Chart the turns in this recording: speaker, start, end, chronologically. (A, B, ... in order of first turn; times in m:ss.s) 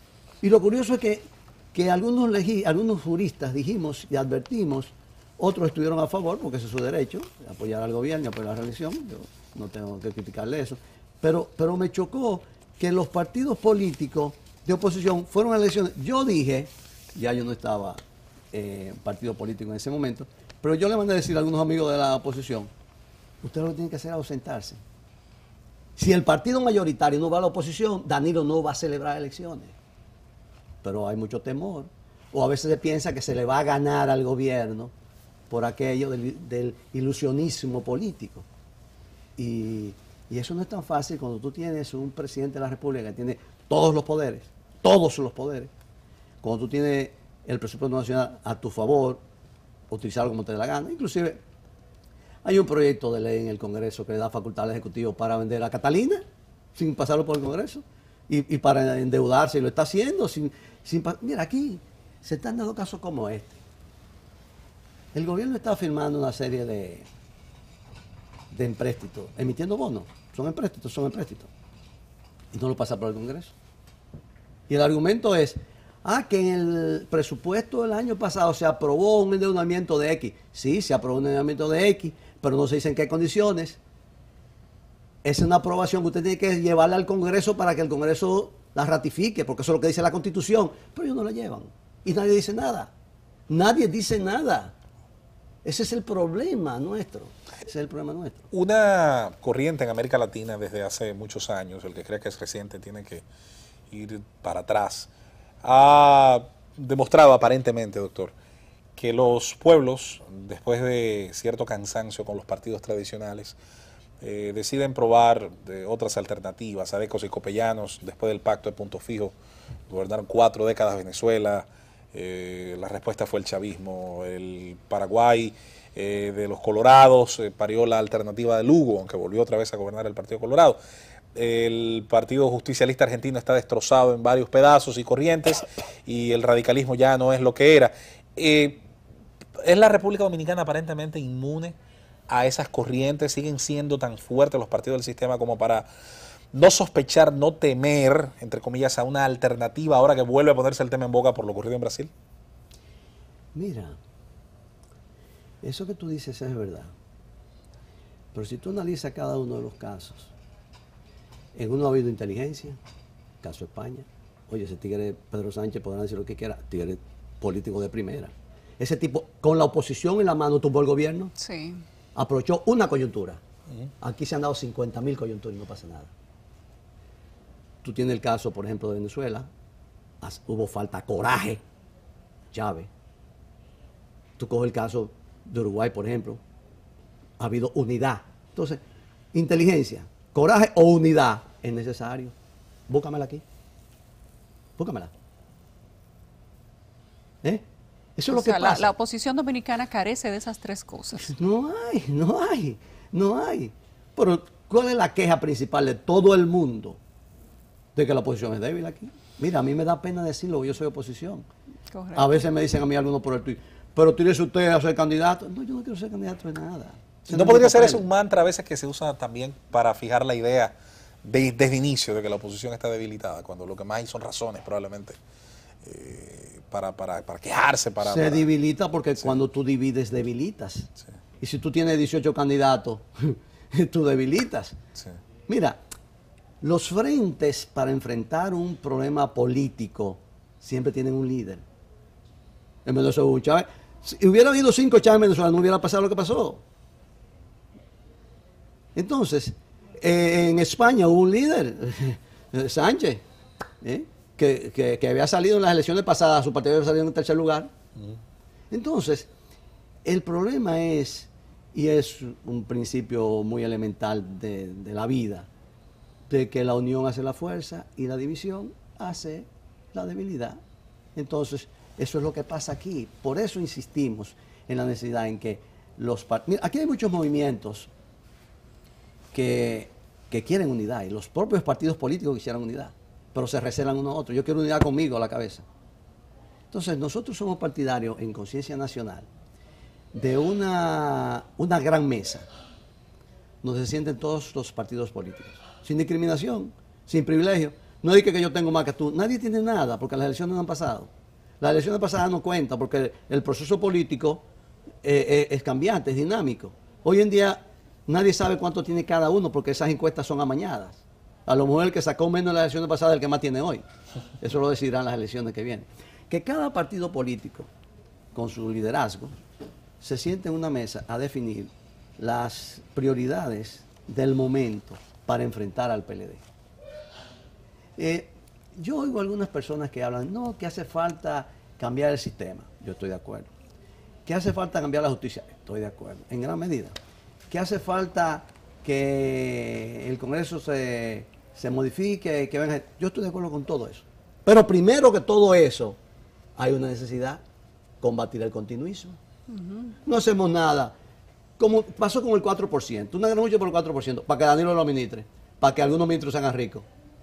0:00.4-0:18.0 A
0:18.5-0:22.7 A
0:23.4-0:24.8 A
0:26.0-0:29.7 A
0:30.8-0:34.9 A
0:35.5-0:38.4 A
0:39.4-0:45.7 A
0:46.4-0:49.2 A
0:49.9-0:51.4 A
0:52.4-0:56.2 A
0:56.7-1:03.6 A
1:05.1-1:07.1 A
1:08.5-1:11.5 A
1:12.5-1:13.5 A
1:14.7-1:23.8 A
1:25.2-1:32.9 A
1:33.5-1:34.7 A
1:35.6-1:38.4 A
1:38.5-1:43.2 B
1:43.9-1:45.1 B
1:45.6-1:48.3 B
1:49.0-1:53.6 B
1:54.2-1:59.3 B
1:59.9-2:10.8 B
2:11.3-2:18.8 B
2:19.6-2:21.8 B
2:22.3-2:25.9 B
2:26.5-2:32.1 B
2:33.5-2:34.0 A
2:35.6-2:36.9 A
2:38.3-2:40.3 A
2:41.5-2:42.8 A
2:43.4-2:51.3 A
2:51.4-2:51.8 C
2:52.1-2:53.4 A
2:54.0-2:56.1 A
2:57.8-2:59.5 A
3:00.2-3:01.6 A
3:02.5-3:02.9 A
3:04.4-3:06.4 A
3:07.4-3:08.8 A
3:09.3-3:12.3 A
3:12.9-3:13.4 A
3:14.8-3:15.1 A
3:18.2-3:18.9 A
3:18.3-3:21.3 C
3:21.2-3:27.0 A
3:27.9-3:31.4 A
3:31.9-3:32.4 C
3:32.1-3:38.0 A
3:37.3-3:40.7 B
3:41.2-3:45.2 B
3:45.8-3:48.4 B
3:48.0-3:54.8 A
3:55.5-3:55.8 A
3:56.6-4:01.6 A
4:02.8-4:06.6 A
4:08.9-4:13.2 A
4:13.8-4:17.7 A
4:18.7-4:19.3 A
4:20.0-4:25.5 A
4:26.3-4:30.6 A
4:31.2-4:37.9 A
4:39.3-4:45.6 A
4:46.7-4:49.3 A
4:50.1-4:52.4 A
4:53.6-5:04.4 A
5:05.0-5:13.8 A
5:14.4-5:17.7 A
5:18.3-5:19.3 A
5:20.0-5:26.4 A
5:28.0-5:33.5 A
5:34.2-5:36.9 A
5:37.5-5:46.0 A
5:46.6-5:47.4 A
5:48.0-5:49.2 A
5:49.5-5:49.9 C
5:50.0-5:50.9 A
5:51.6-5:56.8 A